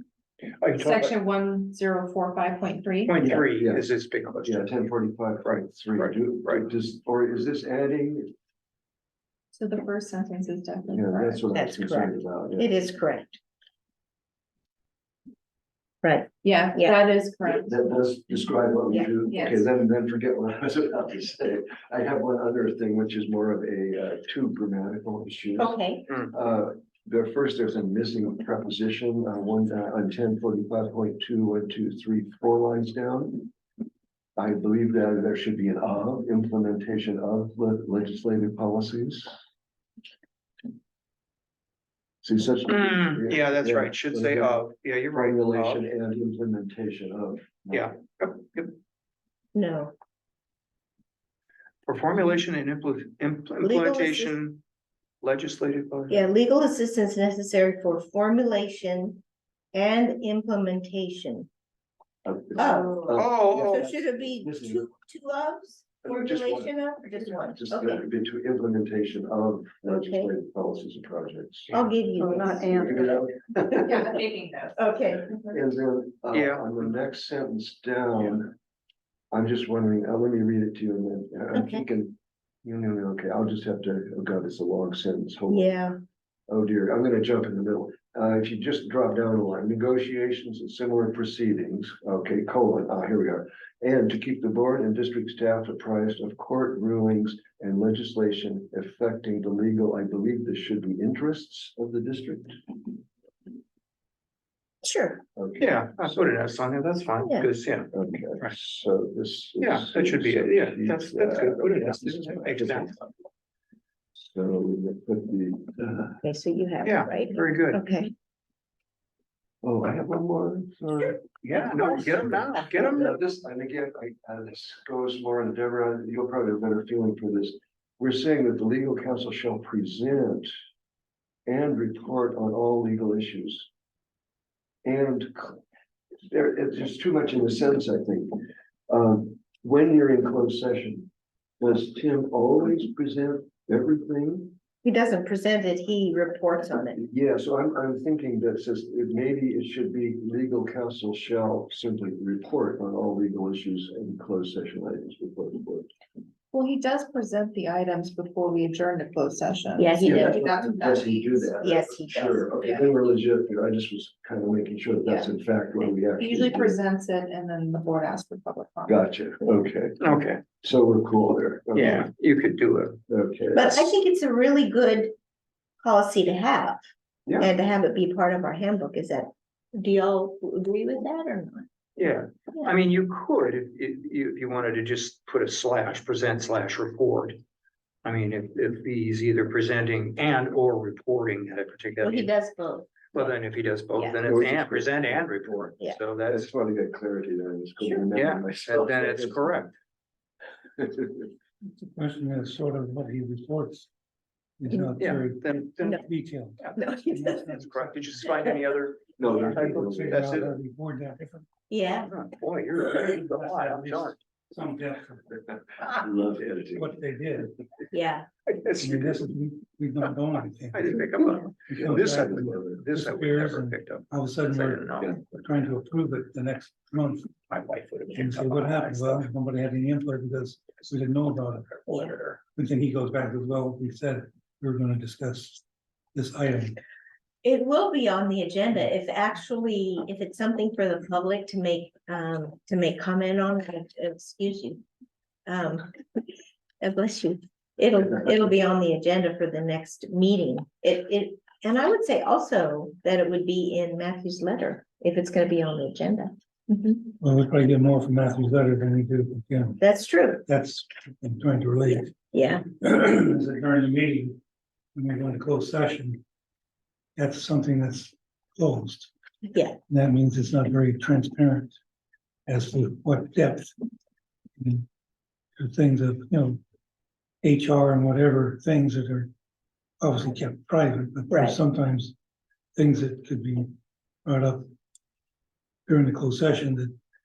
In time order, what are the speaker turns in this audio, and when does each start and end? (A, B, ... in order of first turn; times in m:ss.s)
0:00.4-0:01.1 A
0:00.8-0:03.2 B
0:03.1-0:04.7 A
0:03.2-0:03.9 C
0:04.4-0:08.3 C
0:05.4-0:06.6 A
0:09.5-0:11.4 B
0:10.9-0:12.7 C
0:11.5-0:13.4 D
0:16.0-0:17.0 D
0:16.4-0:17.8 B
0:17.5-0:33.5 C
0:19.2-0:19.7 B
0:25.6-0:26.0 D
0:34.4-0:39.3 C
0:42.2-0:48.0 C
0:42.7-0:45.9 A
0:47.7-0:48.8 A
0:49.5-0:49.9 D
0:51.9-0:54.6 A
0:53.6-0:54.4 D
0:55.2-0:56.3 A
0:56.1-0:59.2 D
0:59.7-1:01.5 D
1:02.2-1:04.9 C
1:02.5-1:08.0 D
1:03.1-1:03.9 A
1:06.0-1:06.7 C
1:07.5-1:14.1 C
1:09.8-1:10.3 D
1:11.7-1:13.1 D
1:13.8-1:14.9 B
1:14.8-1:15.4 D
1:15.3-1:18.5 C
1:16.3-1:16.8 A
1:19.3-1:25.7 C
1:21.5-1:21.8 D
1:25.5-1:26.0 D
1:26.5-1:42.6 C
1:44.8-1:45.2 D
1:45.4-1:46.3 C
1:45.6-1:48.5 A
1:47.9-1:53.0 C
1:49.6-1:53.0 A
1:54.2-1:56.2 C
1:56.2-1:58.1 D
1:56.8-1:57.8 A
1:59.6-2:10.5 C
2:01.4-2:03.2 A
2:11.5-2:13.7 C
2:14.8-2:15.6 C
2:16.3-2:18.4 C
2:18.9-2:21.1 C
2:21.6-2:24.6 C
2:24.8-2:27.0 D
2:27.0-2:35.9 C
2:36.5-2:41.6 B
2:39.8-2:40.4 D
2:40.0-2:46.8 C
2:41.6-2:42.5 D
2:42.6-2:42.8 B
2:46.1-2:49.0 B
2:48.9-2:50.0 C
2:50.0-2:50.4 A
2:50.6-2:52.1 C
2:51.7-2:53.0 A
2:53.1-2:53.9 C
2:53.5-2:55.1 D
2:55.8-2:56.8 D
2:57.4-3:01.7 D
3:02.0-3:07.4 A
3:08.0-3:12.3 A
3:12.0-3:13.4 D
3:13.1-3:16.5 A
3:13.9-3:14.2 D
3:14.2-3:15.7 C
3:16.3-3:19.7 C
3:17.8-3:18.1 D
3:18.1-3:19.7 A
3:20.8-3:21.2 C
3:21.8-3:23.9 E
3:24.6-3:28.4 E
3:25.0-3:26.0 A
3:26.8-3:27.4 D
3:27.5-3:30.6 A
3:29.2-3:30.5 C
3:29.2-3:31.4 E
3:31.7-3:32.1 D
3:32.0-3:34.2 A
3:32.9-3:35.4 E
3:35.9-3:36.9 C
3:36.7-3:37.5 E
3:37.9-3:38.3 D
3:38.5-3:39.2 A
3:38.8-3:41.0 E
3:40.7-3:45.3 A
3:41.7-3:47.3 E
3:41.7-3:42.8 C
3:47.3-3:49.2 A
3:48.1-3:55.6 E
3:51.8-3:52.4 A
3:56.1-3:56.8 E
3:57.4-4:04.8 D
4:05.5-4:05.9 D
4:06.8-4:17.1 D
4:17.2-4:19.8 E
4:19.8-4:20.4 D
4:20.5-4:22.2 E
4:22.1-4:22.6 D
4:22.8-4:24.4 E
4:24.9-4:26.2 E
4:27.2-4:29.1 E
4:29.5-4:29.8 D
4:29.9-4:31.8 E
4:32.5-4:33.7 E
4:34.6-4:34.8 E
4:35.6-4:36.6 E
4:37.4-4:39.3 E
4:40.0-4:42.1 E
4:41.3-4:41.6 D
4:42.8-4:43.7 E
4:44.2-4:44.6 E
4:45.9-4:46.9 E